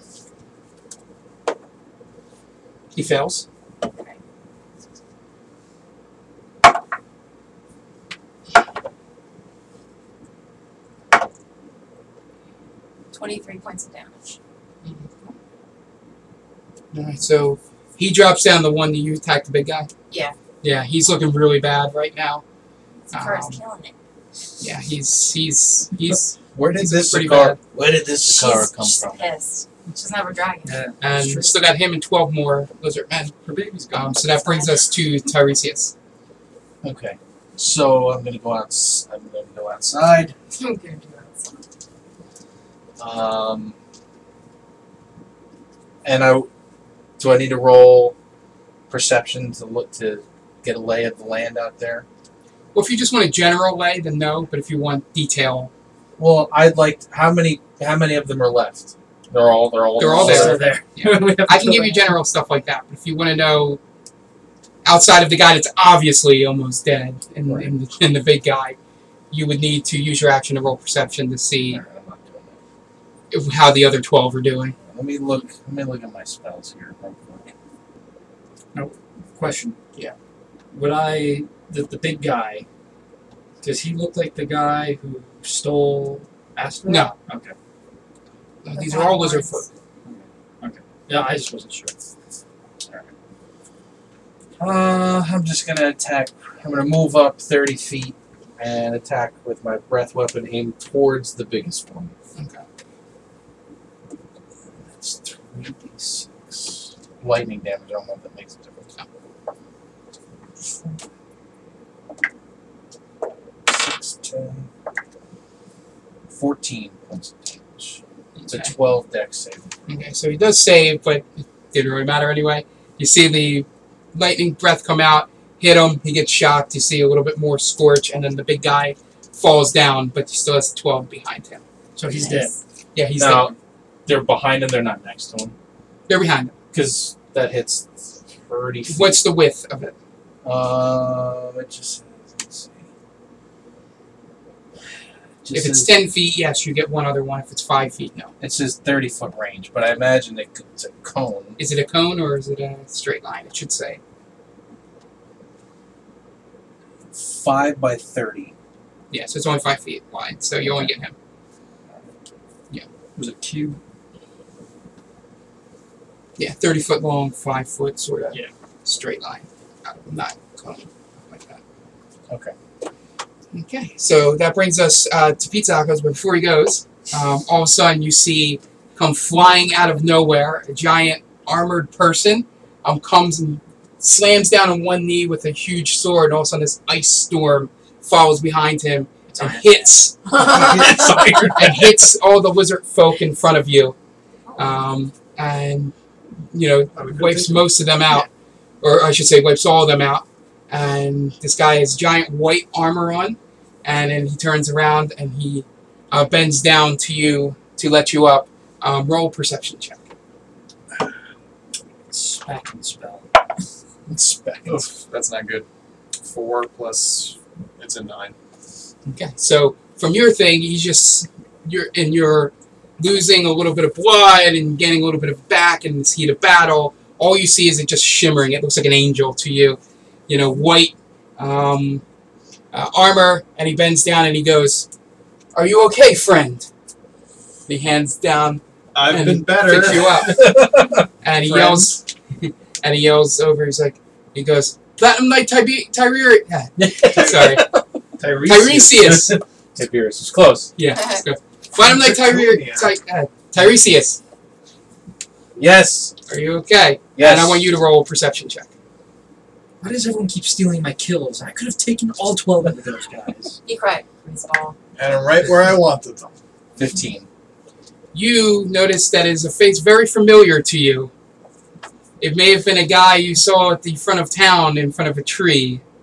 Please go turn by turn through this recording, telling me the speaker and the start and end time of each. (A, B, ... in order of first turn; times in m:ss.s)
0:02.9-0:03.4 A
0:03.8-0:04.2 B
0:13.1-0:14.4 B
0:14.8-0:15.3 A
0:16.9-0:19.9 A
0:20.6-0:22.4 A
0:23.1-0:23.9 B
0:23.1-0:23.6 A
0:24.6-0:27.6 A
0:26.5-0:29.3 C
0:28.2-0:30.8 B
0:30.6-0:31.5 D
0:31.0-0:33.3 A
0:33.4-0:34.2 D
0:33.9-0:35.9 A
0:34.4-0:34.8 B
0:36.8-0:40.4 C
0:40.5-0:41.6 B
0:43.0-0:43.7 C
0:46.0-0:46.5 C
0:47.2-0:48.1 C
0:48.9-0:52.0 C
0:52.7-0:55.7 A
0:56.2-1:00.6 C
1:00.0-1:03.8 A
1:00.0-1:02.1 D
1:04.8-1:08.8 A
1:07.5-1:07.7 C
1:09.3-1:11.8 A
1:11.6-1:12.6 C
1:13.3-1:14.8 A
1:14.9-1:17.5 C
1:18.7-1:19.8 D
1:20.7-1:22.6 D
1:23.6-1:27.5 D
1:26.9-1:27.1 A
1:28.6-1:29.7 A
1:28.7-1:29.6 B
1:30.0-1:32.0 D
1:34.6-1:42.1 C
1:42.4-1:42.6 A
1:44.8-1:48.9 C
1:53.6-1:54.7 C
1:56.3-1:59.7 C
1:58.4-1:58.7 A
1:59.9-2:11.6 A
2:12.0-2:12.6 D
2:12.1-2:12.6 B
2:12.9-2:13.5 A
2:13.2-2:13.5 C
2:14.0-2:15.5 C
2:16.1-2:16.5 A
2:16.7-2:19.2 C
2:18.9-2:20.0 A
2:20.4-2:22.9 C
2:25.4-2:25.9 C
2:25.5-2:28.3 A
2:28.4-2:31.6 C
2:31.6-2:34.0 A
2:37.1-2:38.5 C
2:39.1-2:41.1 A
2:43.2-2:43.8 D
2:46.4-2:51.6 A
2:52.3-2:52.5 C
2:53.5-3:10.7 A
3:09.3-3:09.9 D
3:10.3-3:12.0 C
3:11.5-3:14.0 A
3:14.6-3:15.9 A
3:16.5-3:18.3 A
3:16.9-3:17.7 E
3:18.8-3:30.0 A
3:32.1-3:33.3 D
3:34.1-3:34.8 C
3:34.6-3:35.6 E
3:36.2-3:38.4 E
3:39.1-3:52.0 A
3:52.7-3:54.9 A
3:55.5-3:56.7 A
3:57.7-4:07.7 A
3:58.9-4:00.5 E
4:00.1-4:01.0 C
4:01.4-4:01.8 E
4:06.8-4:10.7 C
4:08.2-4:08.8 E
4:08.4-4:09.4 A
4:10.8-4:14.2 A
4:10.9-4:11.2 B
4:11.8-4:12.9 E
4:15.6-4:16.1 C
4:16.3-4:18.7 A
4:17.2-4:17.6 C
4:19.8-4:23.6 D
4:23.6-4:24.8 B
4:25.0-4:26.3 E
4:26.8-4:27.3 C
4:28.1-4:31.1 A
4:32.2-4:35.8 A